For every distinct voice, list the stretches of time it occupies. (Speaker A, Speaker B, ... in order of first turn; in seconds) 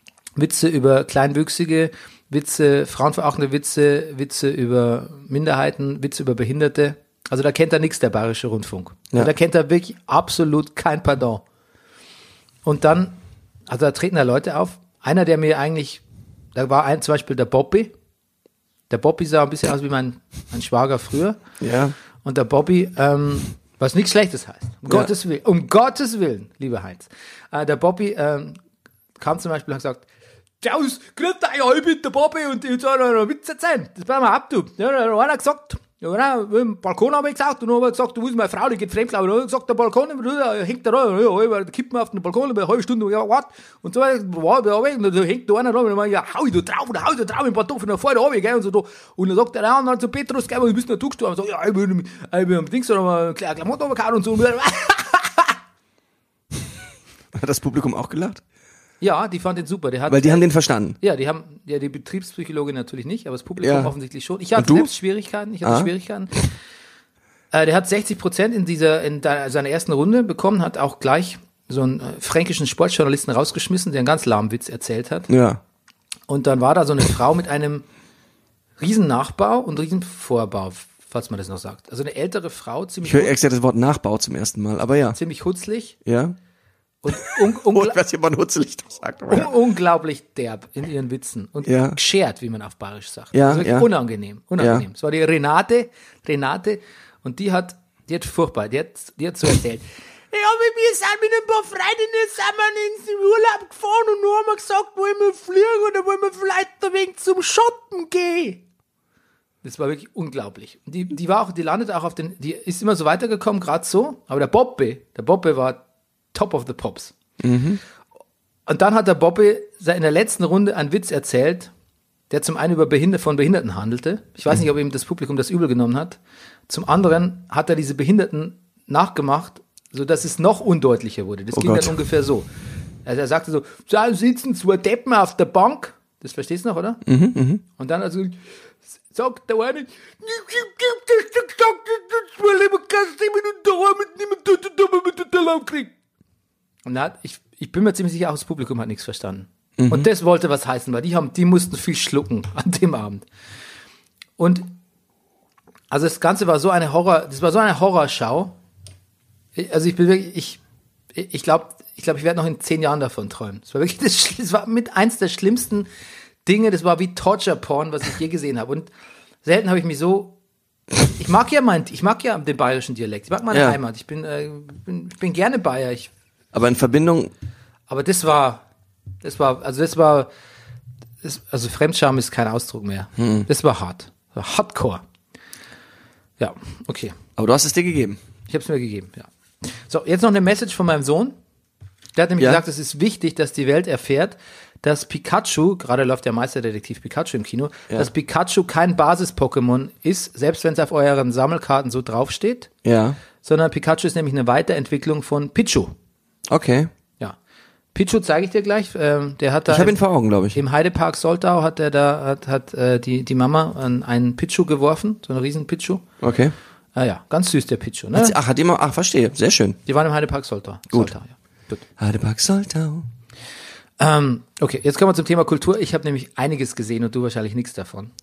Speaker A: 0.3-11.4, 12.6-16.0, 16.5-17.9, 18.9-21.4, 22.2-28.6, 29.2-30.1, 30.6-55.5, 59.0-60.5, 61.0-66.5, 67.5-75.3, 76.3-77.8, 78.8-83.3, 85.1-86.0, 87.0-88.0, 89.3-108.6, 109.6-115.8, 116.3-117.2, 118.7-121.7, 122.3-126.2, 126.7-132.5, 133.0-137.0, 137.8-138.4, 139.1-145.9, 146.8-153.2, 154.4-154.7, 155.9-158.6, 159.5-160.6, 161.1-165.9, 166.4-168.9, 169.4-170.4, 171.0-176.1, 177.9-178.6, 179.2-180.3, 181.2-185.0, 186.4-187.2, 188.5-191.4, 192.1-202.7, 203.4-205.9, 207.9-210.0, 210.5-216.0, 216.9-218.3, 219.8-221.8, 224.0-228.1
Speaker B: 21.6-21.9, 57.3-58.4, 60.1-61.0, 63.6-63.9, 64.5-64.9, 65.6-65.9, 75.3-75.6, 83.0-85.2, 86.0-86.3, 87.1-89.5, 91.6-92.0, 93.3-93.9, 94.6-94.8, 117.4-117.8, 131.5-132.0, 137.0-137.6, 149.8-150.1, 173.5-173.8, 176.5-177.3, 183.2-183.5, 187.4-188.2, 202.8-203.2, 206.5-206.9, 209.7-210.6, 216.2-216.5, 218.1-219.8, 222.0-223.1